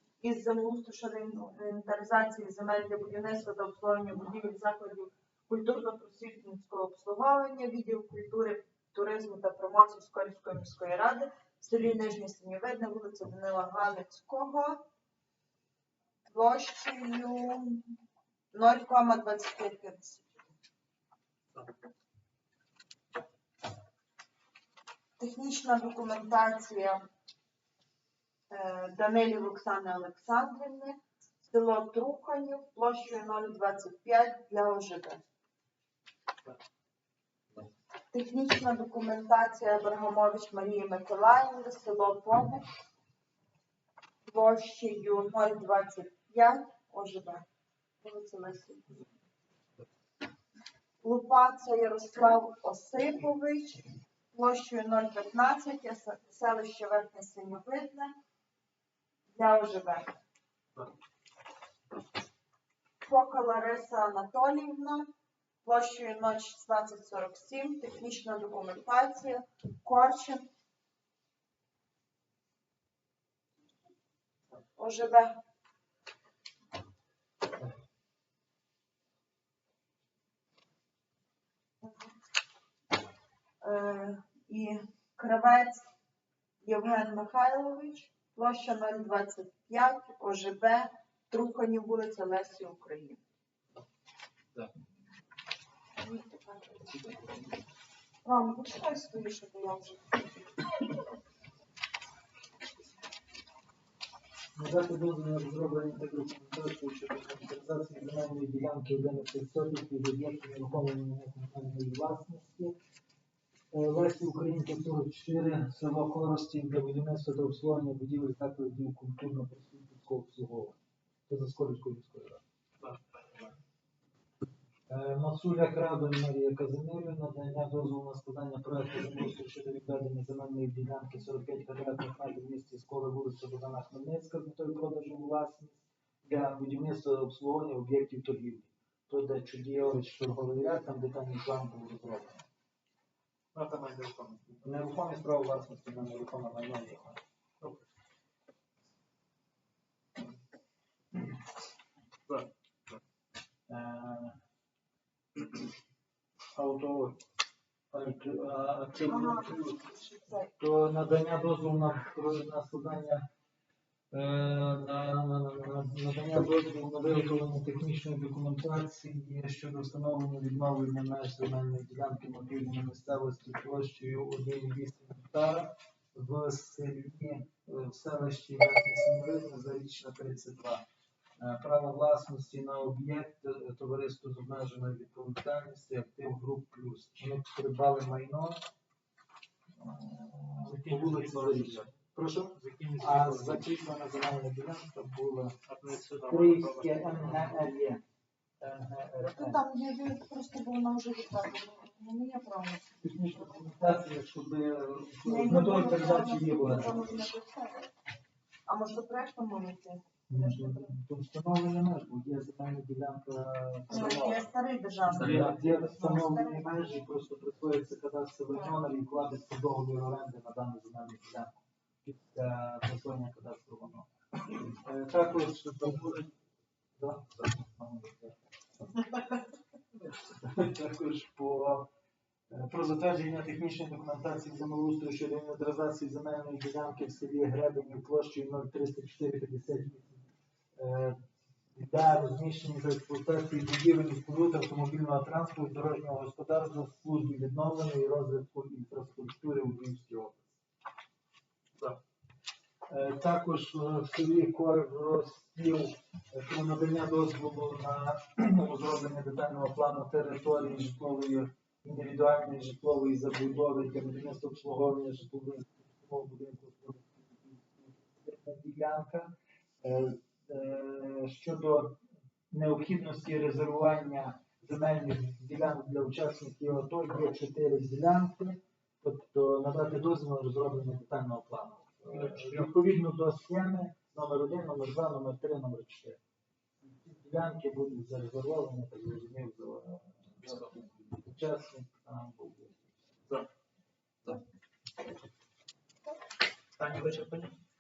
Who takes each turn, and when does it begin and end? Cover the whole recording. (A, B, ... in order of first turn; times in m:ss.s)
0:00.2-0:14.8 A
0:16.3-0:17.8 A
0:18.5-0:20.3 A
0:25.2-0:27.0 A
0:28.5-0:35.2 A
0:38.1-0:42.7 A
0:44.3-0:47.5 A
0:48.0-0:48.9 A
0:51.0-0:58.1 A
0:59.3-1:00.2 A
1:03.0-1:05.1 A
1:05.6-1:10.5 A
1:14.8-1:15.4 A
1:21.8-1:22.1 A
1:23.6-1:25.8 A
1:26.6-1:33.2 A
1:36.0-1:37.1 A
1:38.2-1:40.3 A
1:44.6-1:52.8 B
1:53.7-2:02.4 B
2:02.8-2:03.5 C
2:04.9-2:22.4 B
2:23.5-2:24.6 C
2:24.6-2:27.2 B
2:32.3-2:33.0 C
2:33.7-2:34.4 B
2:36.6-2:37.2 B
2:37.9-2:39.8 B
2:39.1-2:40.5 A
2:40.6-2:43.2 B
2:44.1-3:00.8 B
3:01.4-3:08.6 B
3:09.8-3:12.5 B
3:10.6-3:13.7 C
3:13.0-3:15.6 B
3:15.7-3:17.6 C
3:16.3-3:18.0 B
3:18.6-3:19.6 B
3:19.2-3:23.8 A
3:23.0-3:27.0 B
3:25.2-3:27.9 A
3:28.7-3:30.9 A
3:30.3-3:34.5 B
3:33.9-3:36.7 A
3:35.1-3:44.1 B
3:35.2-3:35.5 C
3:44.7-3:46.3 B
3:47.0-3:48.4 B
3:50.3-3:51.9 B
3:52.5-4:01.2 B
4:01.7-4:10.6 B
4:12.9-4:32.0 B
4:32.5-4:46.2 B
4:42.1-4:42.7 C
4:46.9-4:52.8 B
4:56.8-4:57.6 C